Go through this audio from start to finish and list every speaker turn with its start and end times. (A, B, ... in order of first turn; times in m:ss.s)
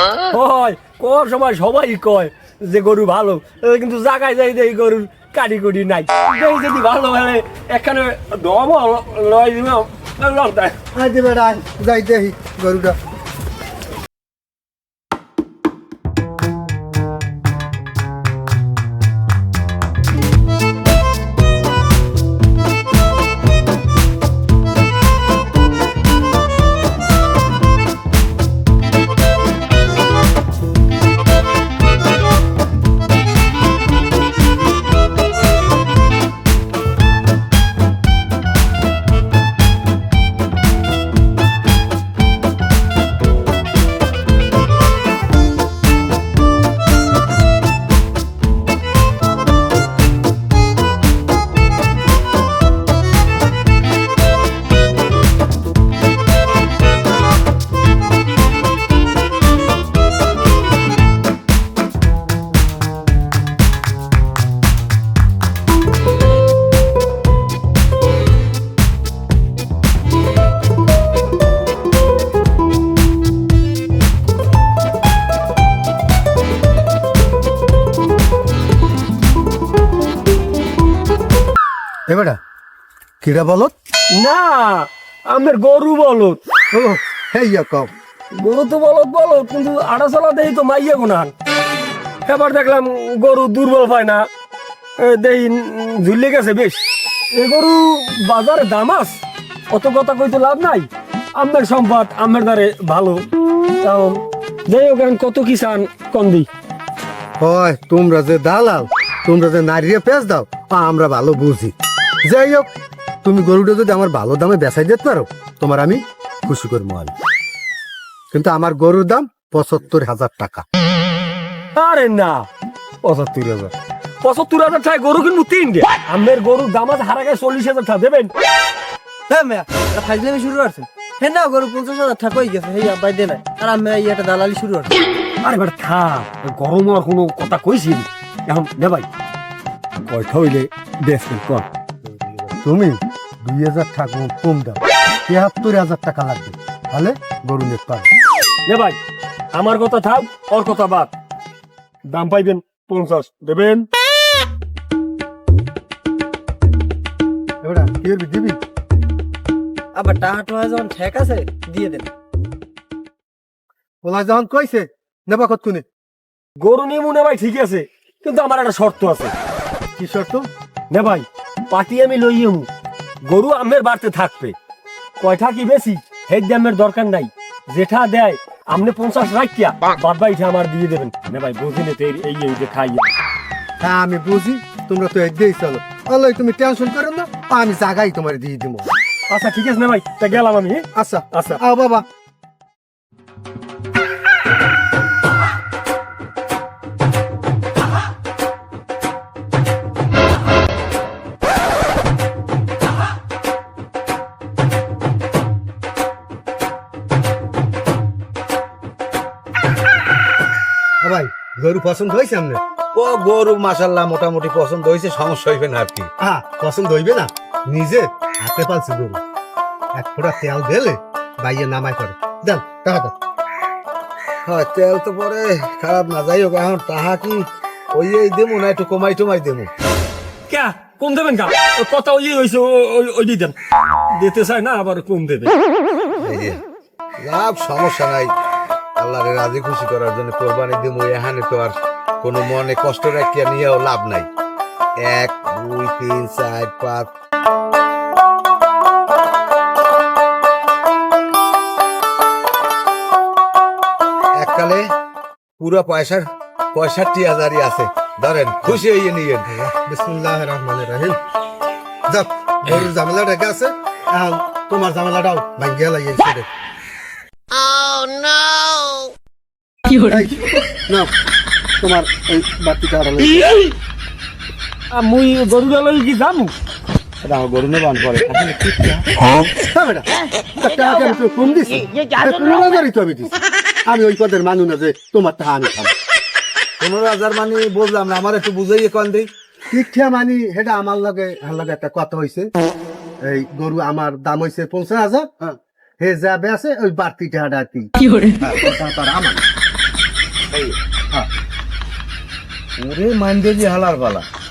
0:00.3-0:10.8 A
0:10.9-0:13.0 B
1:22.1-1:22.4 B
1:23.2-1:23.7 B
1:24.2-1:26.4 A
1:26.7-1:27.9 B
1:28.3-1:31.3 A
1:32.2-1:34.3 A
1:35.0-1:43.2 A
1:43.8-1:46.5 A
1:47.4-1:52.7 B
1:53.2-1:57.1 B
1:58.3-2:00.6 B
2:01.8-2:02.5 A
2:03.0-2:08.3 A
2:09.3-2:14.9 C
2:15.4-2:19.1 A
2:20.1-2:21.6 A
2:22.6-2:28.1 B
2:28.7-2:29.0 A
2:29.5-2:31.1 A
2:32.1-2:33.9 A
2:37.6-2:38.6 B
2:40.0-2:42.1 C
2:44.0-2:45.9 B
2:46.6-2:49.3 A
2:50.0-2:50.5 B
2:50.9-2:52.7 A
2:53.2-2:54.6 A
2:55.2-3:03.1 A
3:03.8-3:08.9 B
3:09.3-3:11.5 A
3:10.9-3:12.0 B
3:31.0-3:32.6 B
3:32.9-3:36.1 D
3:36.2-3:39.2 B
3:39.9-3:43.1 B
3:44.4-3:49.7 D
3:50.5-3:53.6 A
3:54.1-3:55.6 A
3:56.2-3:56.6 D
3:57.2-3:58.3 D
3:59.0-4:04.3 D
4:05.0-4:07.1 D
4:14.4-4:14.9 D
4:15.6-4:19.5 D
4:19.5-4:21.2 B
4:22.1-4:26.5 B
4:29.9-4:31.1 B
4:31.8-4:33.6 B
4:34.9-4:36.5 A
4:37.2-4:39.0 D
4:39.6-4:45.9 B
4:46.8-4:49.3 D
4:49.7-4:52.5 B
4:53.2-4:55.3 B
4:56.0-4:59.4 B
5:02.8-5:04.2 D